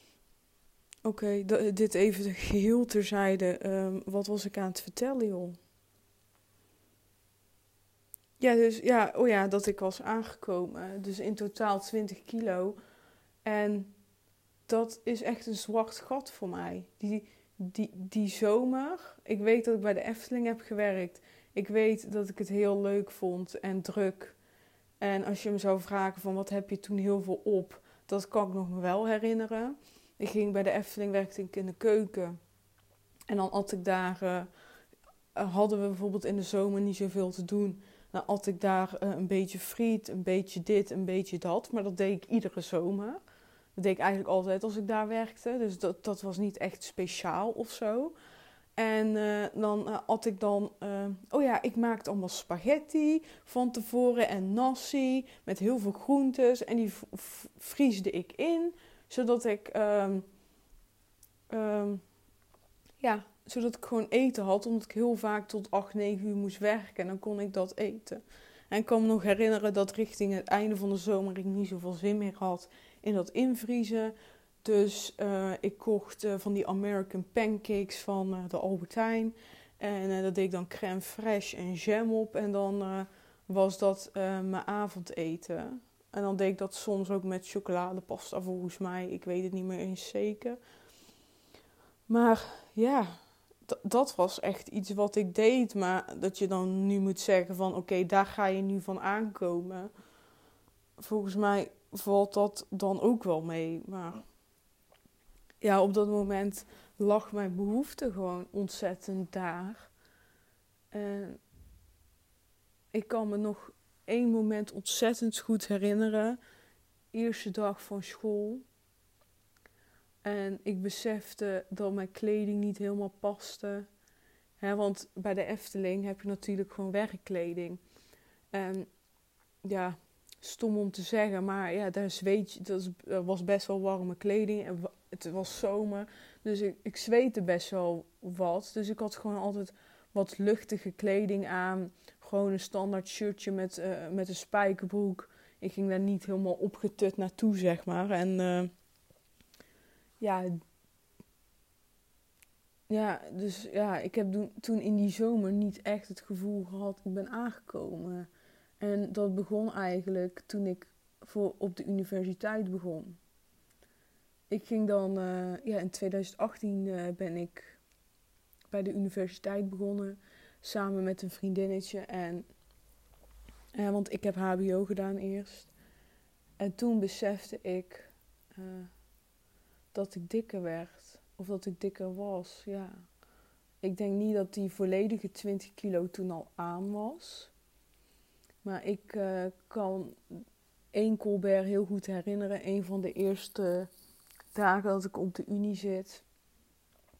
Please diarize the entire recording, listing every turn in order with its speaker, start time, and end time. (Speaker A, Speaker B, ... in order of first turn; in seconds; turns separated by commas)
Speaker A: 1.0-5.6, Speaker A: 8.4-12.8, Speaker A: 13.4-13.9, Speaker A: 14.7-24.4, Speaker A: 25.0-32.4, Speaker A: 33.3-34.5, Speaker A: 35.4-43.2, Speaker A: 43.8-48.1, Speaker A: 48.8-60.3, Speaker A: 61.5-62.0, Speaker A: 63.0-90.6, Speaker A: 92.1-99.9, Speaker A: 101.0-104.3, Speaker A: 105.6-109.9, Speaker A: 110.9-111.4, Speaker A: 112.9-116.4, Speaker A: 117.1-118.6, Speaker A: 120.2-123.9, Speaker A: 124.6-127.8, Speaker A: 128.5-128.9, Speaker A: 129.6-148.7, Speaker A: 150.2-150.6, Speaker A: 152.9-158.3, Speaker A: 158.8-163.2, Speaker A: 164.5-167.8, Speaker A: 168.7-172.5, Speaker A: 173.8-175.7, Speaker A: 176.6-178.9, Speaker A: 179.9-183.1, Speaker A: 183.8-187.5, Speaker A: 188.6-190.3, Speaker A: 190.9-193.9, Speaker A: 194.5-196.2